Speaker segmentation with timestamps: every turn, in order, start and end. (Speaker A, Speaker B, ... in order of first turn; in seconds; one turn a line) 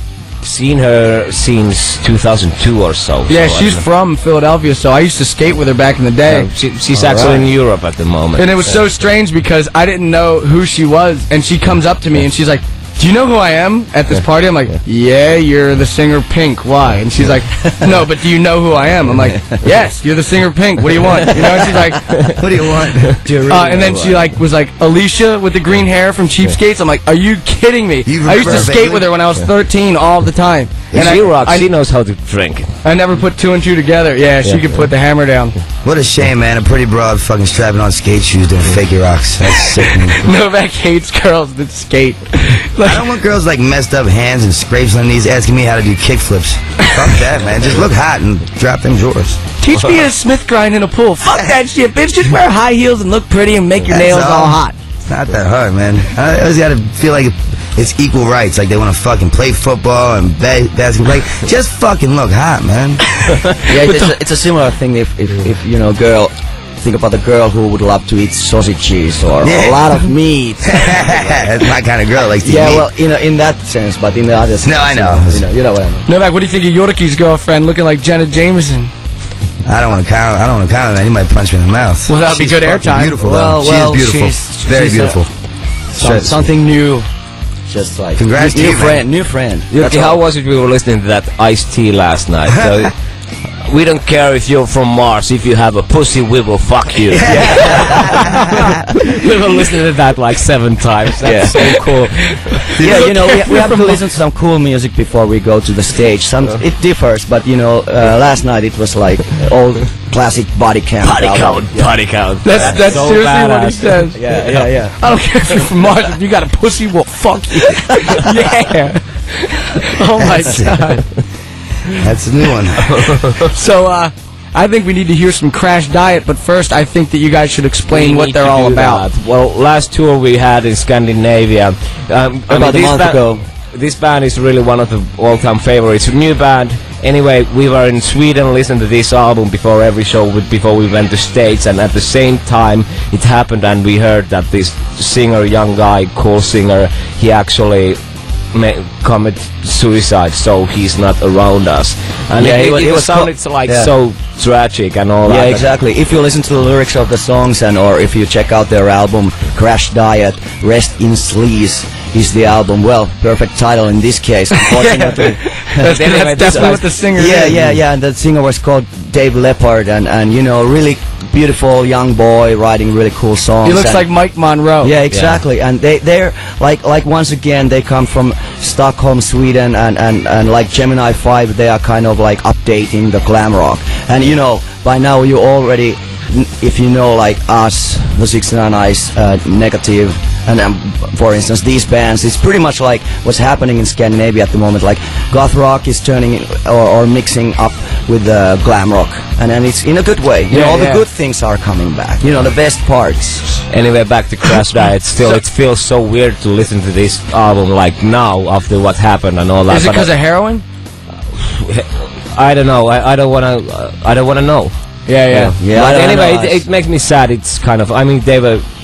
Speaker A: 0.4-3.8
Speaker B: 3.3-6.5
Speaker A: 6.3-8.7
Speaker C: 6.9-7.4
Speaker B: 8.4-22.1
Speaker C: 17.6-17.9
Speaker C: 21.1-22.4
Speaker D: 22.4-23.2
Speaker C: 23.2-24.4
Speaker B: 23.5-31.7
Speaker D: 28.1-29.1
Speaker D: 30.9-31.2
Speaker A: 30.9-32.7
Speaker B: 32.8-35.5
Speaker A: 34.4-34.9
Speaker D: 35.8-40.2
Speaker B: 39.8-43.0
Speaker D: 42.8-49.4
Speaker B: 49.6-54.8
Speaker D: 53.9-63.1
Speaker B: 63.2-64.1
Speaker C: 63.7-71.5
Speaker D: 69.4-70.0
Speaker D: 70.7-72.9
Speaker C: 72.4-76.1
Speaker D: 74.6-75.5
Speaker B: 76.1-78.9
Speaker D: 79.6-85.3
Speaker B: 82.1-83.2
Speaker C: 83.2-85.2
Speaker C: 85.9-87.1
Speaker D: 86.0-86.5
Speaker C: 87.7-90.2
Speaker D: 88.2-89.0
Speaker A: 89.7-92.9
Speaker A: 93.7-98.4
Speaker D: 97.1-98.1
Speaker C: 97.2-98.3
Speaker A: 99.0-102.6
Speaker C: 101.2-101.8
Speaker B: 102.6-104.0
Speaker D: 102.8-103.1
Speaker C: 102.8-112.0
Speaker A: 111.0-114.7
Speaker B: 112.4-114.2
Speaker C: 112.5-112.8
Speaker C: 114.2-115.0
Speaker B: 115.0-121.0
Speaker D: 120.3-120.9
Speaker D: 121.9-123.0
Speaker B: 123.4-129.0
Speaker A: 127.9-148.0
Speaker C: 132.5-133.4
Speaker A: 148.5-155.7
Speaker C: 152.4-153.9
Speaker C: 155.3-174.1
Speaker B: 164.6-167.6
Speaker A: 165.8-166.9
Speaker B: 173.6-174.9
Speaker C: 174.8-203.6
Speaker A: 175.1-175.4
Speaker B: 200.5-201.0
Speaker A: 203.7-210.1
Speaker B: 209.7-210.6
Speaker A: 211.3-214.7
Speaker B: 215.1-215.6
Speaker C: 215.3-216.6
Speaker A: 215.7-218.7